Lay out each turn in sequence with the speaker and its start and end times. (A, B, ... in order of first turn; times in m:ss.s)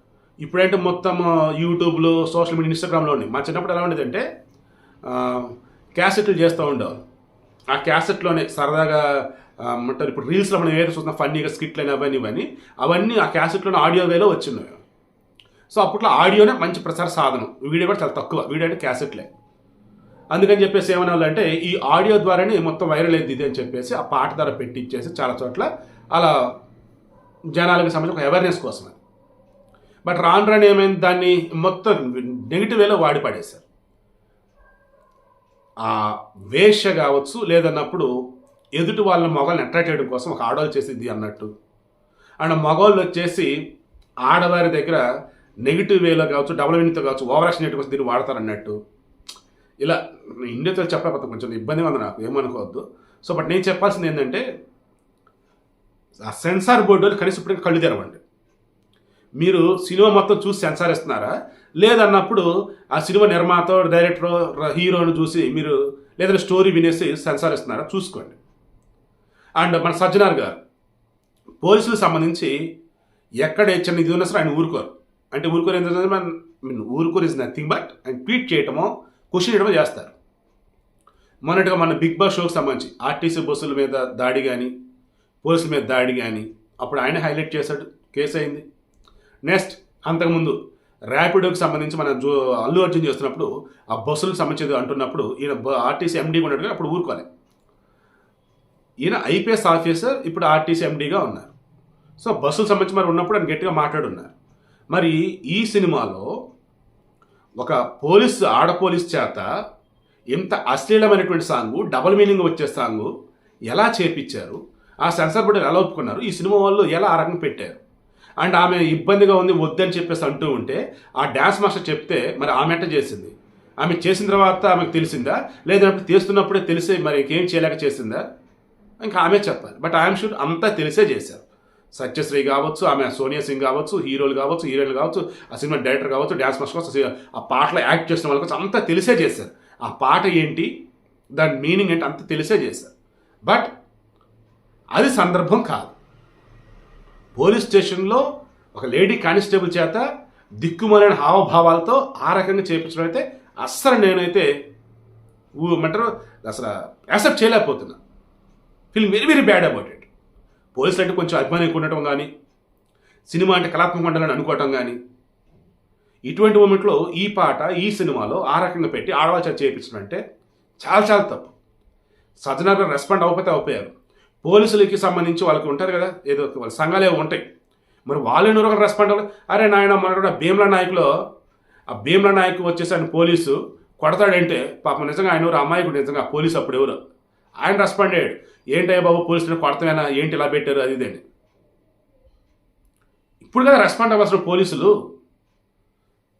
0:00.4-0:04.2 A
0:05.0-0:07.0 A
0:07.7-0:14.8 A
0:15.7-0:19.3 A
0:20.3-0:26.3 A
0:27.5-0:29.0 A
0:30.0-0:33.6 A
0:35.8-0:38.1 A
0:38.8-0:41.5 A
0:42.4-0:43.5 A
0:44.2-0:45.0 A
0:45.6-0:48.8 A
0:49.8-0:54.4 A
0:56.2-0:58.2 A
0:59.4-1:08.4 A
1:09.6-1:10.6 A
1:11.6-1:12.5 A
1:13.4-1:20.1 A
1:21.4-1:24.7 A
1:25.4-1:28.6 A
1:29.4-1:30.6 A
1:31.1-1:37.2 A
1:39.0-1:41.5 A
1:42.2-1:44.3 A
1:44.9-1:46.3 A
1:47.6-1:49.4 A
1:50.3-1:53.1 A
1:53.7-1:57.8 A
1:58.4-2:08.2 A
2:09.0-2:20.7 A
2:21.4-2:22.9 A
2:23.4-2:23.7 A
2:24.9-2:25.9 A
2:27.4-2:28.2 A
2:28.7-2:30.0 A
2:30.6-2:34.5 A
2:35.6-2:38.0 A
2:38.9-2:40.1 A
2:40.7-2:42.3 A
2:43.3-2:45.0 A
2:46.3-2:50.2 A
2:50.8-2:51.5 A
2:52.4-2:57.4 A
2:58.0-3:01.1 A
3:01.9-3:07.0 A
3:07.6-3:11.2 A
3:13.4-3:14.9 A